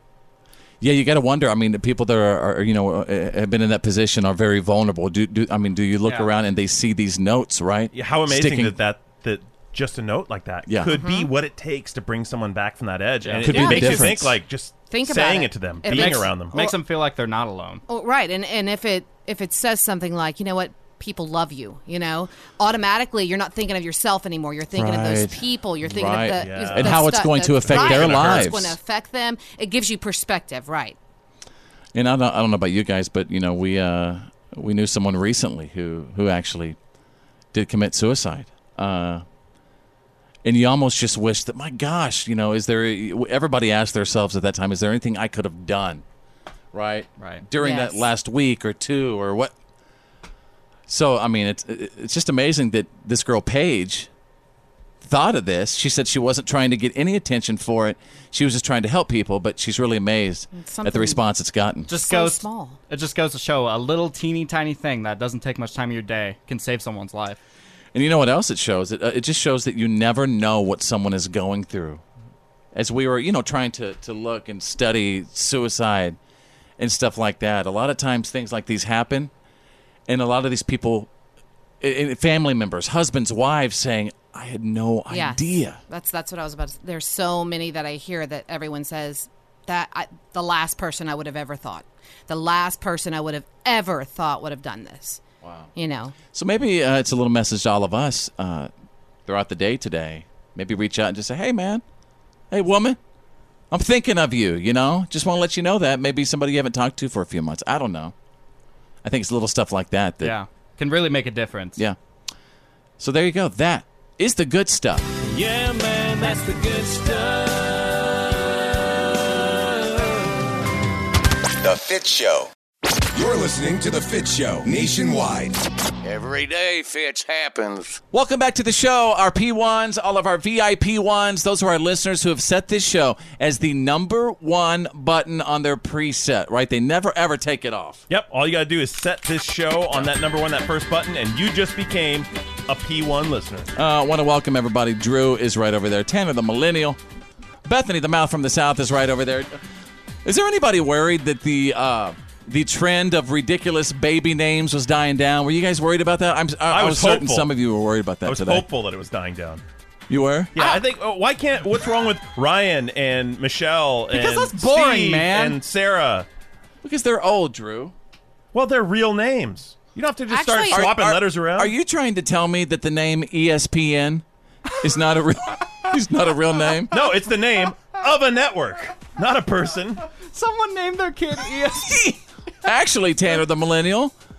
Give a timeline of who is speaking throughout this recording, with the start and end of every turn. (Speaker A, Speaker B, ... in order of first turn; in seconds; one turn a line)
Speaker A: 0.8-8.8
Speaker B: 7.9-16.6
Speaker A: 10.7-11.0
Speaker C: 10.8-11.3
Speaker D: 13.2-13.5
Speaker A: 13.4-14.4
Speaker C: 13.5-14.1
Speaker C: 14.9-16.7
Speaker D: 15.8-17.8
Speaker C: 17.9-31.0
Speaker A: 24.7-28.8
Speaker B: 26.1-28.6
Speaker A: 31.9-36.8
Speaker A: 37.5-39.2
Speaker A: 40.4-46.0
Speaker A: 46.7-49.5
Speaker D: 47.2-47.4
Speaker C: 47.6-48.1
Speaker A: 50.9-54.1
Speaker A: 55.0-61.9
Speaker C: 60.5-61.2
Speaker D: 61.9-67.4
Speaker C: 61.9-62.8
Speaker A: 67.9-72.0
Speaker A: 72.7-76.2
Speaker A: 76.8-79.3
Speaker A: 80.1-81.1
Speaker A: 81.8-85.8
Speaker C: 85.1-95.2
Speaker A: 95.4-95.7
Speaker C: 95.7-96.2
Speaker A: 96.3-98.7
Speaker A: 99.2-101.8
Speaker A: 102.5-103.0
Speaker A: 103.7-108.1
Speaker A: 109.0-110.3
Speaker D: 110.2-111.8
Speaker A: 113.0-115.1
Speaker E: 115.2-118.5
Speaker E: 119.6-120.1
Speaker F: 121.6-122.5
Speaker F: 123.1-125.6
Speaker E: 126.0-128.0
Speaker A: 128.1-138.0
Speaker B: 138.1-143.7
Speaker A: 143.7-147.0
Speaker A: 147.6-149.6
Speaker A: 150.2-158.6
Speaker B: 156.7-157.5
Speaker B: 158.2-159.6
Speaker A: 160.1-160.6
Speaker B: 160.5-166.3
Speaker D: 164.1-165.6
Speaker A: 166.8-167.9
Speaker B: 168.5-171.7
Speaker C: 170.3-170.9
Speaker A: 170.7-174.2
Speaker A: 174.8-177.0
Speaker B: 176.9-180.0
Speaker D: 180.3-182.0
Speaker A: 181.7-184.1